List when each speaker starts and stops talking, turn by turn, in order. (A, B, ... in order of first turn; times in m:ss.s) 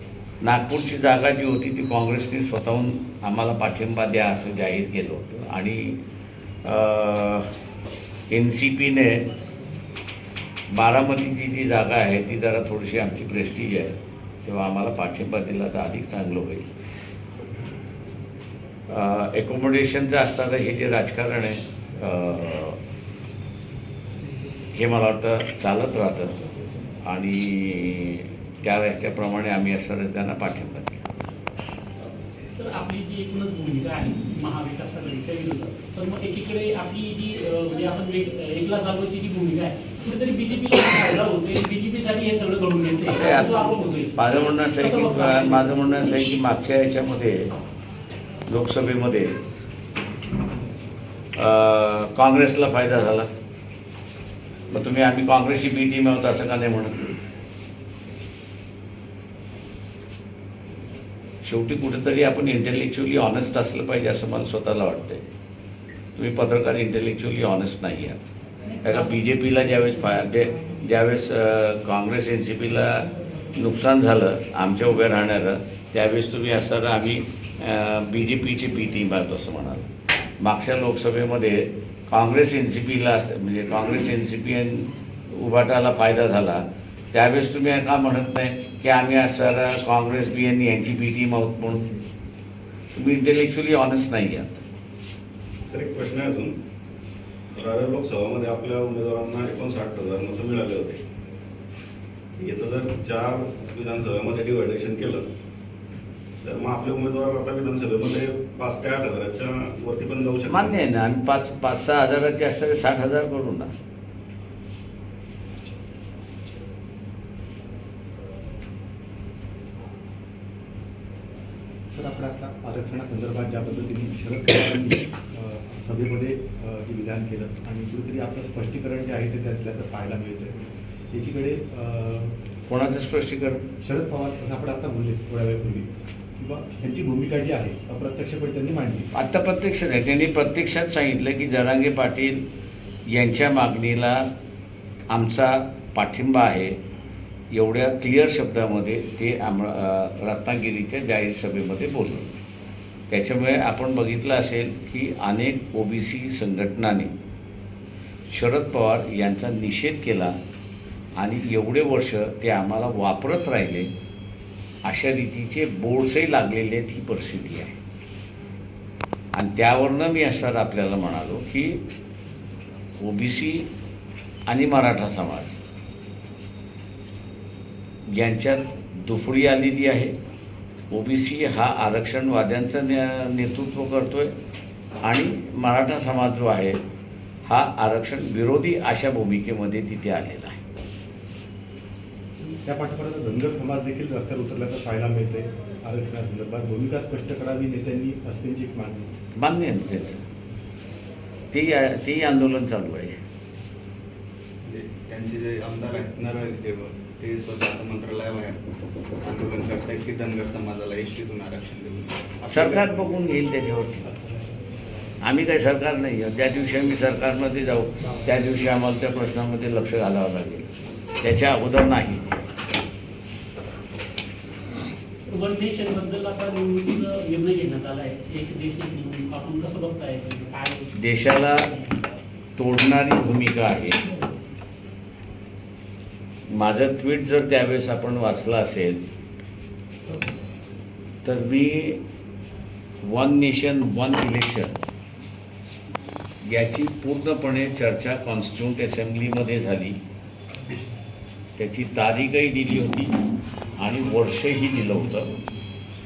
0:00.4-0:06.0 A
0:06.6-0:07.5 A
0:08.3-0:09.2 A
0:10.7-0:16.7 A
0:18.9-0:22.8 A
0:24.7-0:26.4 A
0:27.0-0:31.0 A
0:32.6-0:46.0 B
0:43.1-0:47.4 A
0:48.5-0:49.3 A
0:51.4-0:53.3 A
0:54.7-0:57.2 A
1:01.4-1:05.2 A
1:06.2-1:08.3 A
1:08.7-1:09.5 B
1:08.8-1:19.9 A
1:20.4-1:32.0 A
1:32.9-1:34.6 A
1:35.7-1:36.6 C
1:37.6-1:41.0 C
1:42.4-1:45.3 C
1:46.4-1:50.8 C
1:50.5-1:53.7 A
2:01.9-2:10.5 D
2:11.1-2:12.3 D
2:12.7-2:13.6 A
2:13.8-2:15.9 D
2:16.4-2:19.1 D
2:19.2-2:22.4 A
2:23.1-2:24.3 A
2:25.1-2:26.7 A
2:27.5-2:32.4 A
2:33.1-2:37.1 A
2:38.3-2:40.3 A
2:41.2-2:43.9 A
2:44.8-2:47.7 A
2:49.4-2:51.8 A
2:53.0-2:53.7 A
2:54.5-2:55.6 A
2:58.2-3:00.2 A
3:00.9-3:04.3 A
3:05.0-3:06.8 A
3:07.5-3:10.6 A
3:12.4-3:19.1 D
3:19.4-3:20.2 A
3:21.5-3:23.1 A
3:24.6-3:28.6 E
3:29.2-3:32.6 E
3:32.5-3:34.1 A
3:35.2-3:40.7 A
3:41.2-3:42.2 A
3:45.3-3:52.0 B
3:51.0-3:51.6 A
3:52.6-3:54.0 A
3:54.1-3:54.4 B
3:56.5-3:59.0 A
4:01.2-4:02.0 A
4:03.0-4:04.8 A
4:06.4-4:10.0 A
4:11.6-4:13.1 A
4:13.8-4:15.3 A